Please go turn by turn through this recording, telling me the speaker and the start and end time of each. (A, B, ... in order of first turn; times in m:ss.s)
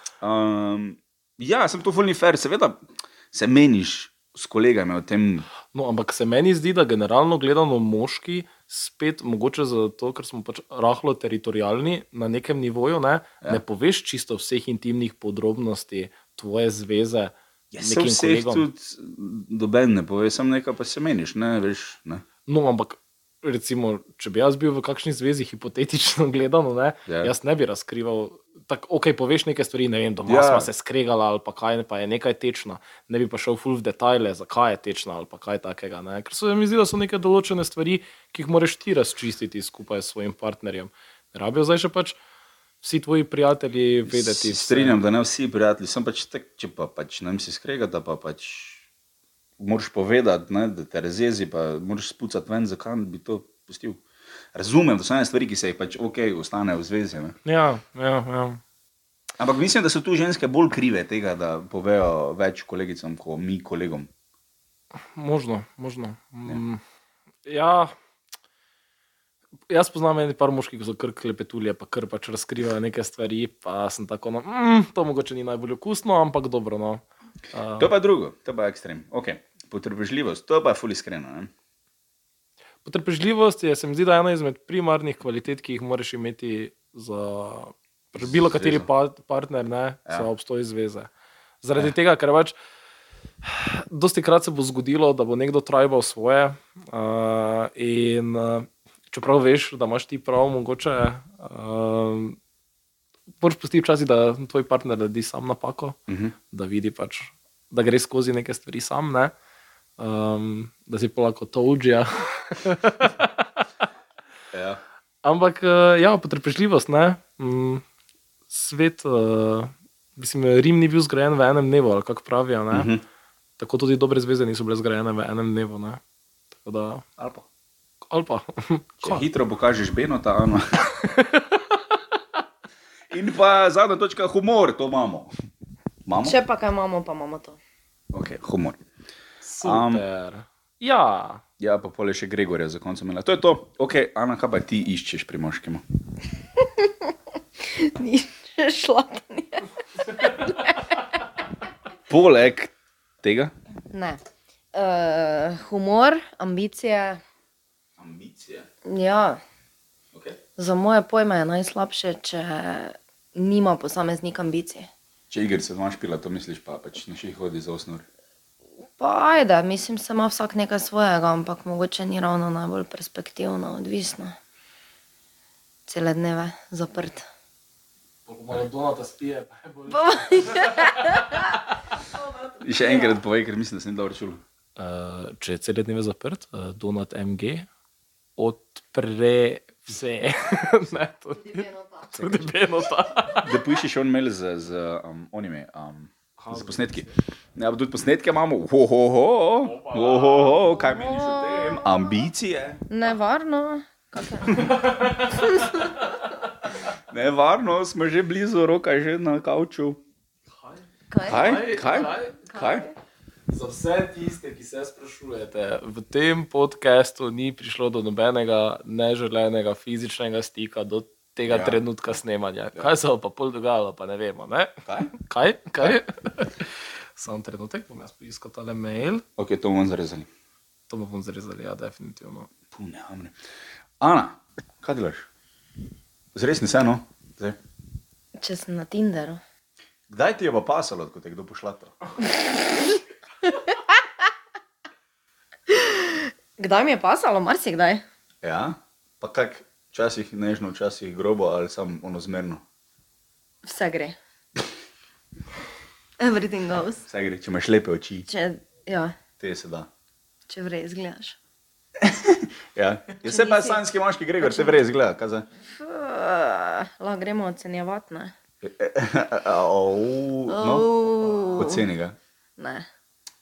0:00.2-0:05.5 A
0:05.7-0:18.7 B
0:17.7-0:22.2 A
0:22.5-0:42.2 B
0:27.1-0:27.3 A
0:30.3-0:30.7 A
0:42.8-0:45.0 B
0:44.1-0:48.8 A
0:49.6-0:54.0 A
0:54.5-0:57.4 A
0:57.4-0:58.6 B
0:59.4-1:04.1 A
1:05.1-1:06.8 B
1:07.4-1:07.9 B
1:09.7-1:17.0 B
1:17.5-1:17.9 B
1:17.8-1:21.5 A
1:22.8-1:31.1 B
1:28.3-1:28.9 A
1:31.6-1:32.6 B
1:33.4-1:42.4 B
1:43.4-1:46.0 B
1:46.1-1:46.4 A
1:46.5-1:49.3 B
1:50.0-1:53.6 B
1:54.5-1:54.8 A
1:55.2-1:57.8 B
1:58.5-2:02.9 B
2:02.7-2:03.0 A
2:03.6-2:06.0 B
2:06.6-2:07.1 B
2:07.2-2:07.4 A
2:08.1-2:09.3 B
2:09.0-2:10.7 A
2:11.0-2:12.0 B
2:13.1-2:15.3 A
2:16.1-2:16.4 A
2:16.2-2:17.6 C
2:18.1-2:18.8 A
2:19.4-2:21.4 B
2:19.6-2:20.0 A
2:21.6-2:25.8 A
2:26.6-2:27.1 C
2:27.6-2:30.9 C
2:32.1-2:33.5 A
2:33.9-2:34.2 C
2:34.7-2:37.2 C
2:38.0-2:38.7 A
2:38.9-2:39.4 C
2:40.1-2:40.4 A
2:40.6-2:44.9 C
2:45.3-2:48.1 A
2:49.0-2:54.4 C
2:55.9-2:57.3 C
2:58.3-3:01.4 B
2:59.9-3:01.4 C
3:02.0-3:03.1 C
3:02.6-3:04.4 A
3:04.8-3:07.7 B
3:08.4-3:13.5 B
3:11.4-3:12.6 C
3:13.4-3:22.8 A
3:16.4-3:17.2 B
3:19.7-3:20.5 B
3:20.8-3:22.1 C
3:22.9-3:25.8 C
3:24.7-3:25.4 B
3:27.1-3:30.0 A
3:30.6-3:32.5 B
3:31.1-3:32.9 C
3:31.2-3:32.9 A
3:33.5-3:49.2 B
3:41.5-3:41.8 A
3:44.9-3:45.1 A
3:49.4-3:50.3 A
3:50.9-3:52.5 B
3:52.7-3:53.4 A
3:54.0-3:55.3 A
3:56.3-3:57.6 A
3:58.4-3:59.4 C
4:00.1-4:01.9 A
4:03.5-4:03.7 C
4:05.7-4:08.0 C
4:08.4-4:12.6 A
4:13.6-4:14.2 C
4:16.2-4:17.1 C
4:17.1-4:18.3 A
4:18.3-4:19.2 C
4:19.4-4:19.9 A
4:20.5-4:21.4 C
4:22.0-4:25.5 A
4:23.2-4:23.8 C
4:24.4-4:24.8 C
4:25.8-4:28.3 C
4:28.6-4:30.9 A
4:30.5-4:31.9 C
4:31.6-4:32.2 A
4:32.6-4:32.9 C